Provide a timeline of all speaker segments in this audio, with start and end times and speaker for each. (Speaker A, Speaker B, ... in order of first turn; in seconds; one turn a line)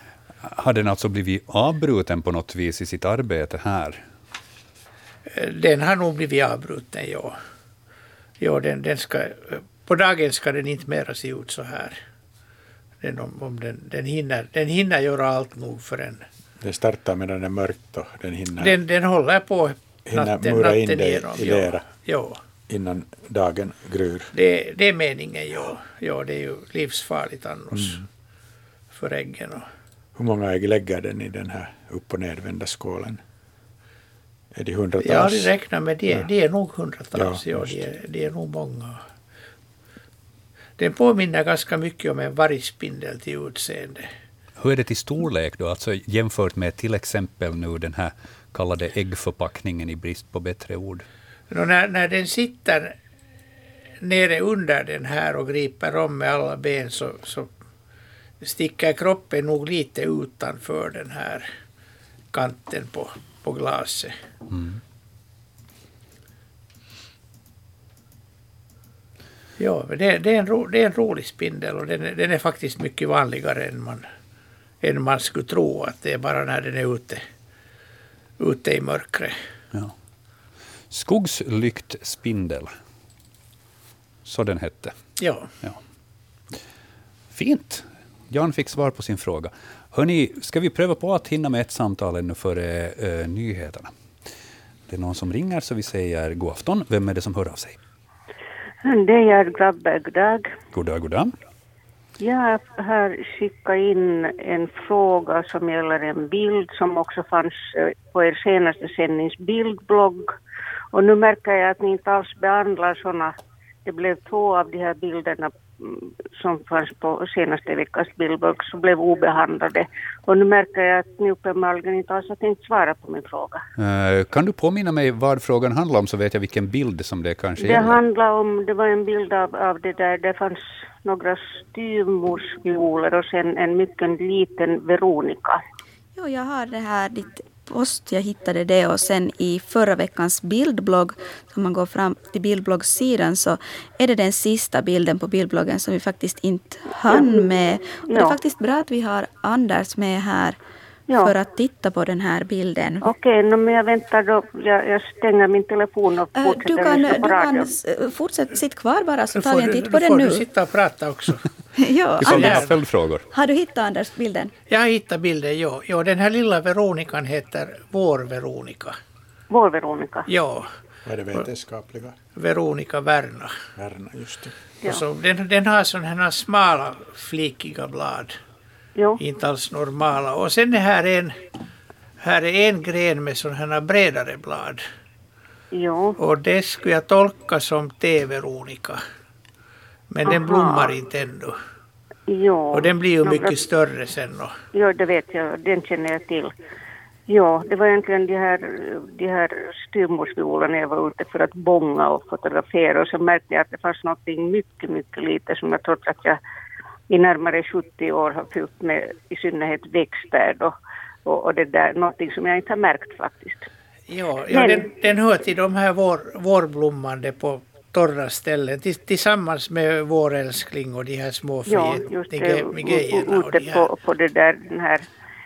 Speaker A: 0.4-4.0
Speaker B: 5.3-7.4
Speaker B: 8.4-12.0
Speaker B: 13.0-16.2
Speaker C: 16.6-18.8
Speaker B: 18.6-22.4
Speaker C: 20.1-21.9
Speaker C: 22.7-24.3
Speaker B: 24.3-28.0
Speaker C: 27.7-28.0
Speaker B: 28.9-29.7
Speaker C: 30.2-33.2
Speaker C: 34.5-35.5
Speaker B: 35.0-39.0
Speaker C: 37.1-37.8
Speaker B: 40.8-44.1
Speaker A: 44.6-51.1
Speaker B: 51.5-52.9
Speaker B: 54.0-57.5
Speaker B: 58.4-61.5
Speaker B: 62.3-64.1
Speaker A: 64.5-64.8
Speaker B: 69.6-74.0
Speaker B: 74.8-77.2
Speaker B: 78.4-79.3
Speaker A: 80.9-82.8
Speaker A: 84.2-85.0
Speaker B: 85.2-85.5
Speaker A: 87.3-93.9
Speaker A: 94.9-97.8
Speaker D: 98.8-100.5
Speaker A: 100.7-101.3
Speaker D: 102.2-110.3
Speaker D: 110.9-123.6
Speaker A: 123.8-128.0
Speaker D: 127.6-135.6
Speaker E: 136.2-150.6
Speaker D: 147.1-147.3
Speaker D: 148.1-148.4
Speaker D: 151.1-151.3
Speaker E: 151.2-153.1
Speaker D: 153.0-157.7
Speaker E: 156.4-160.5
Speaker B: 159.3-161.4
Speaker E: 161.8-162.7
Speaker A: 162.2-163.2
Speaker B: 162.2-162.7
Speaker E: 163.3-164.5
Speaker B: 164.7-169.0
Speaker D: 169.5-170.3
Speaker B: 170.3-170.7
Speaker C: 171.1-172.2
Speaker B: 172.4-173.5
Speaker C: 173.8-174.5
Speaker B: 174.8-178.4
Speaker B: 179.2-181.3
Speaker B: 182.2-184.8
Speaker D: 185.7-186.2
Speaker B: 186.2-189.0
Speaker B: 190.1-191.6
Speaker D: 190.3-190.9
Speaker D: 192.3-193.6
Speaker B: 192.7-194.5
Speaker D: 194.7-196.5
Speaker D: 197.3-206.4
Speaker D: 207.1-213.7
Speaker B: 214.1-223.9
Speaker D: 214.5-214.9
Speaker D: 221.7-225.0